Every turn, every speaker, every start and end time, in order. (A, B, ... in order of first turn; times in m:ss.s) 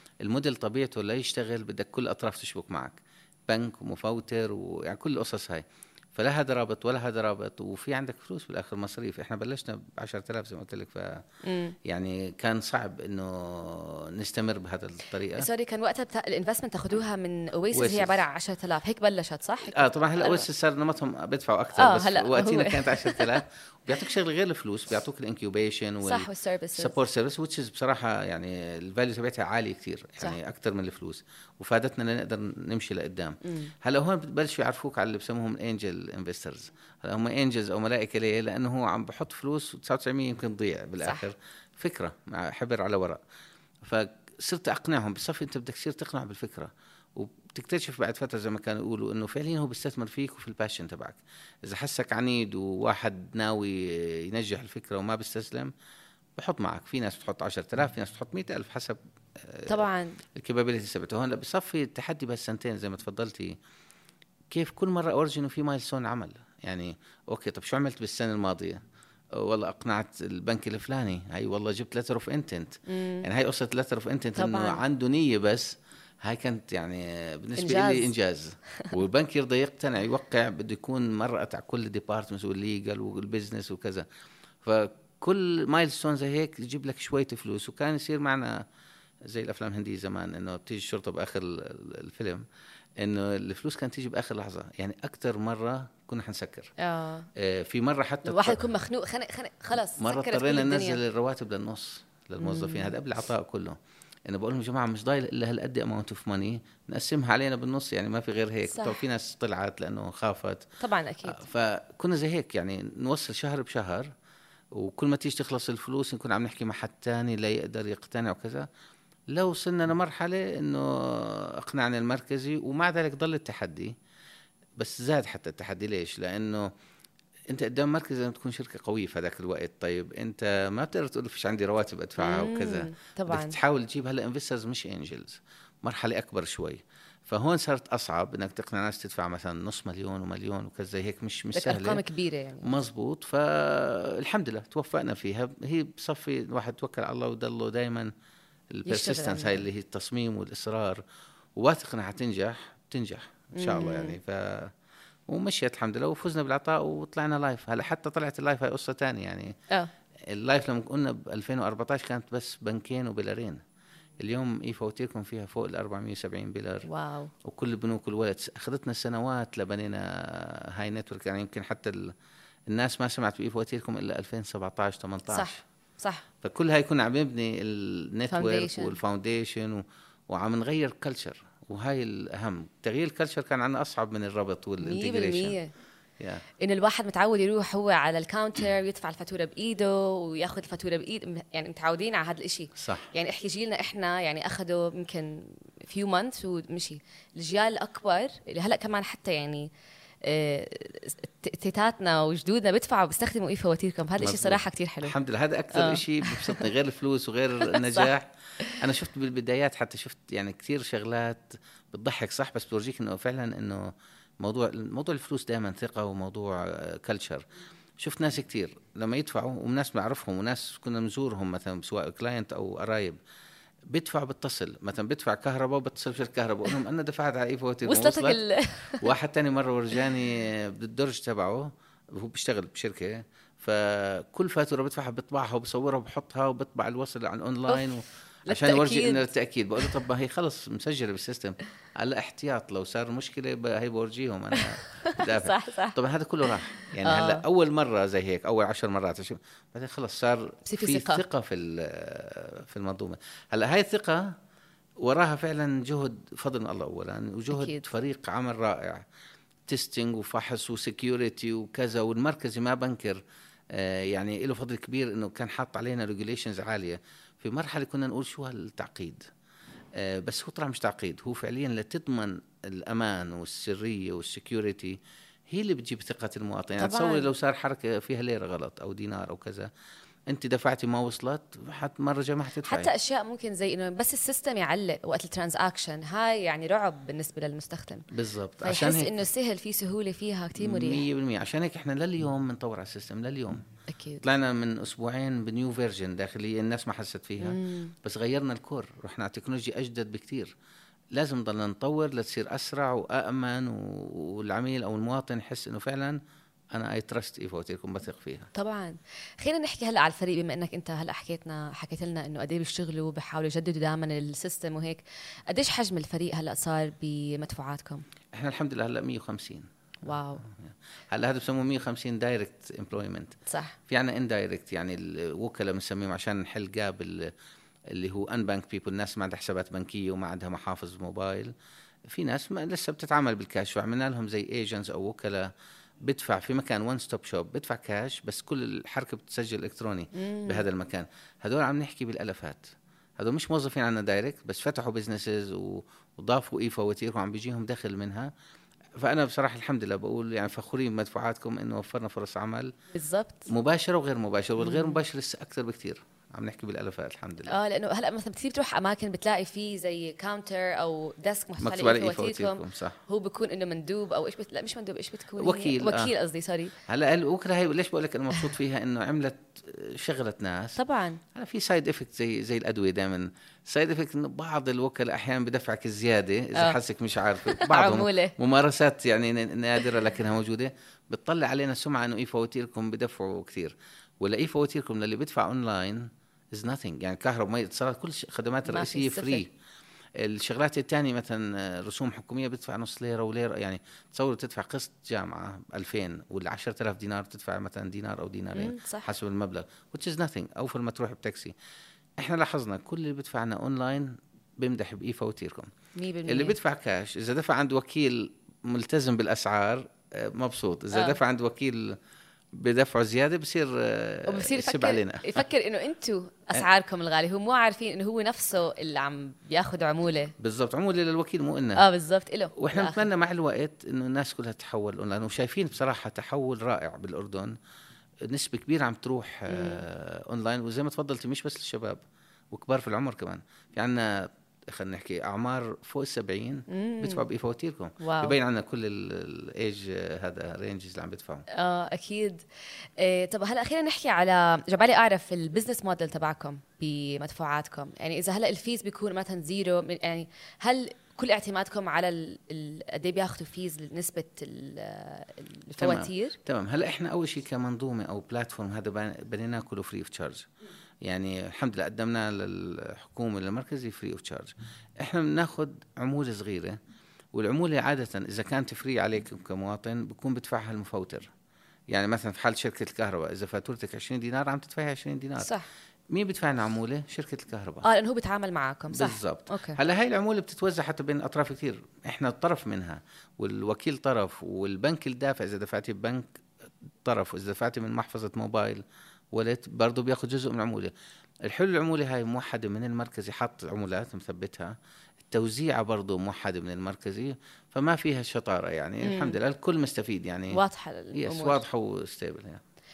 0:00.2-0:11.2 A
0:11.4-0:11.8 B
0:11.8-0:15.5 A
0:15.3-0:20.4 B
0:17.7-0:18.2 A
0:19.6-0:43.2 A
0:21.8-0:23.4 B
0:26.0-0:27.0 B
0:33.4-0:33.7 B
0:41.0-0:41.3 B
0:43.8-0:55.7 A
0:56.4-1:03.6 A
0:59.7-1:00.2 B
1:04.5-1:08.8 A
1:09.3-1:24.1 A
1:12.9-1:13.3 B
1:14.4-1:14.8 B
1:17.6-1:18.1 B
1:24.6-1:28.6 A
1:29.2-1:32.4 A
1:33.0-1:36.7 A
1:36.8-1:37.3 B
1:37.3-1:38.6 A
1:38.2-1:41.0 B
1:39.9-1:50.7 A
1:42.4-1:42.9 B
1:48.7-1:49.0 B
1:50.8-1:51.4 B
1:51.3-1:54.1 A
1:54.7-1:58.7 A
1:59.3-2:03.9 A
2:04.8-2:06.7 A
2:07.5-2:22.0 A
2:12.2-2:13.6 B
2:21.5-2:22.7 B
2:22.6-2:28.1 A
2:28.7-2:31.0 A
2:28.9-2:29.6 B
2:31.6-2:34.7 A
2:33.5-2:34.2 B
2:35.3-2:39.6 A
2:40.3-2:43.6 A
2:44.2-2:46.9 A
2:46.8-2:47.3 B
2:47.4-2:52.1 A
2:52.7-2:55.6 A
2:55.3-2:56.3 B
2:56.4-3:05.6 A
2:58.3-2:59.0 B
3:04.8-3:05.7 B
3:06.6-3:19.7 B
3:12.8-3:13.1 A
3:20.2-3:25.2 B
3:24.2-3:37.4 A
3:25.7-3:26.6 B
3:27.7-3:28.1 B
3:38.0-3:43.2 A
3:43.9-3:48.4 A
3:47.8-3:49.1 B
3:49.0-4:14.3 A
3:58.5-3:59.3 B
4:04.5-4:06.0 B
4:07.0-4:07.4 B
4:10.6-4:11.2 B
4:15.0-4:19.0 A
4:17.5-4:17.8 B
4:19.7-4:29.2 A
4:30.0-4:39.7 A
4:36.8-4:37.3 B
4:40.3-4:42.9 A
4:42.6-4:48.0 B
4:48.1-4:49.1 A
4:48.6-4:51.0 B
4:50.6-4:53.6 A
4:53.9-4:54.2 B
4:54.2-5:00.5 A
4:57.4-4:57.9 B
5:01.1-5:06.2 A
5:06.7-5:08.5 A
5:08.5-5:18.0 B
5:18.3-5:19.7 A
5:20.0-5:20.4 B
5:20.4-5:23.4 A
5:23.5-5:23.8 B
5:23.9-5:27.3 A
5:27.9-5:31.5 A
5:32.1-5:35.5 A
5:36.0-5:48.3 A
5:40.2-5:40.6 B
5:49.0-5:52.7 A
5:52.9-5:53.5 B
5:53.5-5:57.6 A
5:54.6-5:55.0 B
5:57.5-6:06.7 B
6:01.6-6:03.0 A
6:05.4-6:06.1 A
6:06.8-6:10.8 A
6:10.8-6:11.2 B
6:11.3-6:29.5 A
6:17.4-6:18.3 B
6:28.7-6:29.4 B
6:30.2-6:41.5 A
6:38.5-6:39.1 B
6:42.2-6:45.7 A
6:46.0-6:46.6 B
6:46.3-6:52.0 A
6:50.9-6:51.2 B
6:52.5-6:55.4 A
6:54.3-7:00.3 B
7:00.4-7:01.8 A
7:01.8-7:03.0 B
7:02.6-7:07.5 A
7:08.2-7:21.4 A
7:09.5-7:09.8 B
7:16.7-7:17.2 B
7:18.0-7:18.4 B
7:21.5-7:22.4 B
7:23.0-7:36.4 B
7:35.8-7:40.5 A
7:41.0-7:46.8 A
7:47.3-7:51.3 A
7:51.9-7:55.5 A
7:55.4-7:55.6 B
7:56.1-7:57.8 A
7:57.8-7:59.8 B
7:58.9-8:06.3 A
8:07.0-8:10.9 A
8:11.4-8:14.7 A
8:15.3-8:20.6 A
8:19.0-8:19.4 B
8:20.5-8:21.6 B
8:21.1-8:22.6 A